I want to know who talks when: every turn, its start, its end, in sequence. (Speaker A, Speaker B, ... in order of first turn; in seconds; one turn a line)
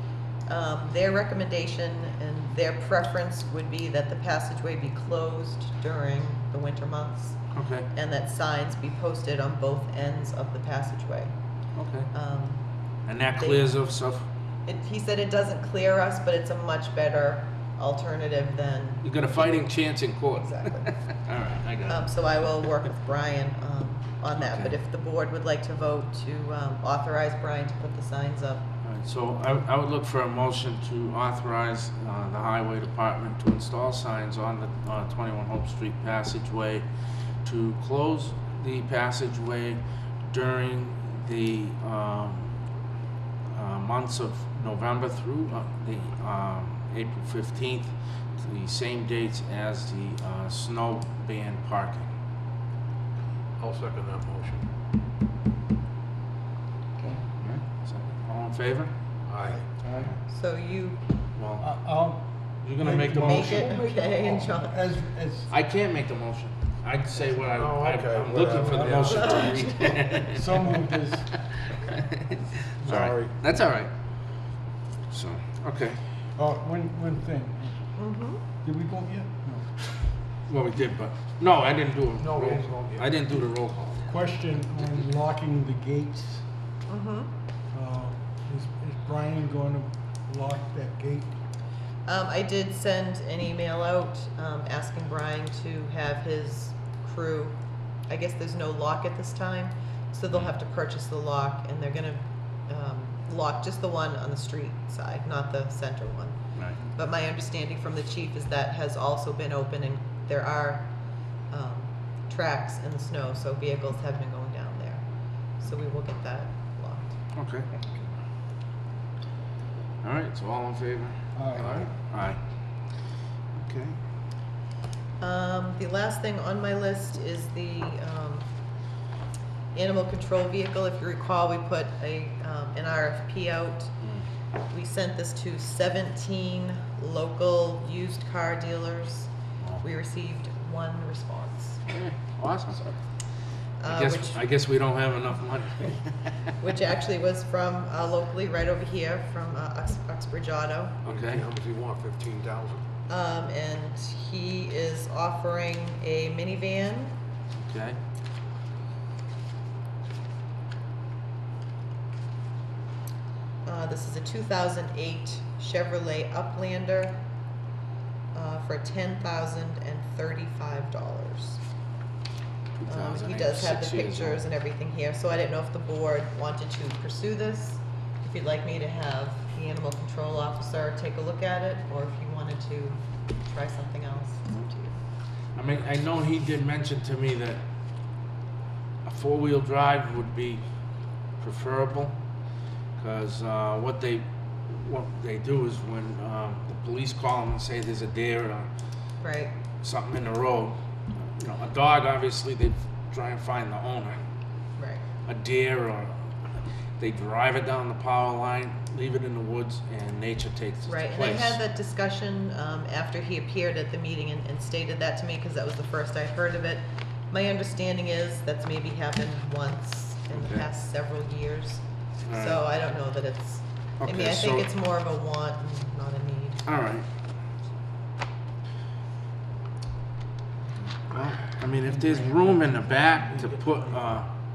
Speaker A: 0.5-7.4
Speaker B: 7.5-7.9
Speaker A: 7.9-11.3
Speaker B: 11.8-12.1
Speaker A: 12.1-12.6
Speaker B: 13.1-14.3
Speaker A: 13.4-13.7
Speaker A: 14.7-19.7
Speaker B: 19.0-22.1
Speaker A: 20.4-21.0
Speaker A: 21.9-28.7
Speaker B: 24.4-24.8
Speaker B: 28.8-36.9
Speaker B: 37.4-42.5
Speaker B: 43.5-52.1
Speaker C: 53.6-54.7
Speaker B: 57.4-58.9
Speaker C: 59.3-59.7
Speaker B: 59.9-60.1
Speaker A: 60.2-61.0
Speaker B: 61.4-61.7
Speaker D: 61.6-65.5
Speaker B: 62.6-63.8
Speaker A: 63.1-64.8
Speaker B: 65.5-70.8
Speaker C: 67.5-69.8
Speaker D: 68.6-68.9
Speaker A: 69.0-70.0
Speaker D: 70.3-71.4
Speaker B: 72.2-73.9
Speaker C: 72.8-73.4
Speaker B: 75.1-76.0
Speaker D: 76.4-78.0
Speaker A: 78.0-78.4
Speaker D: 78.6-79.9
Speaker B: 80.5-84.0
Speaker C: 82.2-83.8
Speaker D: 84.0-86.5
Speaker A: 86.9-87.3
Speaker D: 87.7-91.4
Speaker A: 92.1-106.4
Speaker B: 106.5-106.8
Speaker A: 106.9-110.9
Speaker A: 111.5-115.0
Speaker A: 115.6-117.2
Speaker B: 117.3-117.7
Speaker B: 120.0-122.4
Speaker D: 121.3-121.9
Speaker B: 123.6-124.0
Speaker A: 125.2-128.5
Speaker A: 129.7-133.9
Speaker A: 134.7-141.8
Speaker B: 141.9-142.9
Speaker A: 143.8-144.4
Speaker B: 143.8-146.3
Speaker A: 146.6-151.0
Speaker B: 151.0-151.4
Speaker C: 151.1-152.8
Speaker A: 153.1-157.2
Speaker B: 157.6-158.0
Speaker A: 163.6-167.2
Speaker A: 168.3-171.6
Speaker B: 172.8-174.4
Speaker A: 172.9-185.0
Speaker B: 185.6-187.6
Speaker B: 189.1-190.6
Speaker B: 191.4-192.2
Speaker B: 193.0-198.7
Speaker A: 199.2-199.5
Speaker B: 199.8-204.2
Speaker A: 204.8-205.1
Speaker B: 205.3-206.2
Speaker B: 207.0-211.6
Speaker A: 210.9-226.7
Speaker B: 220.3-220.7
Speaker B: 222.3-222.6
Speaker B: 224.0-224.7
Speaker B: 226.7-227.1
Speaker B: 231.1-234.3
Speaker D: 231.8-233.8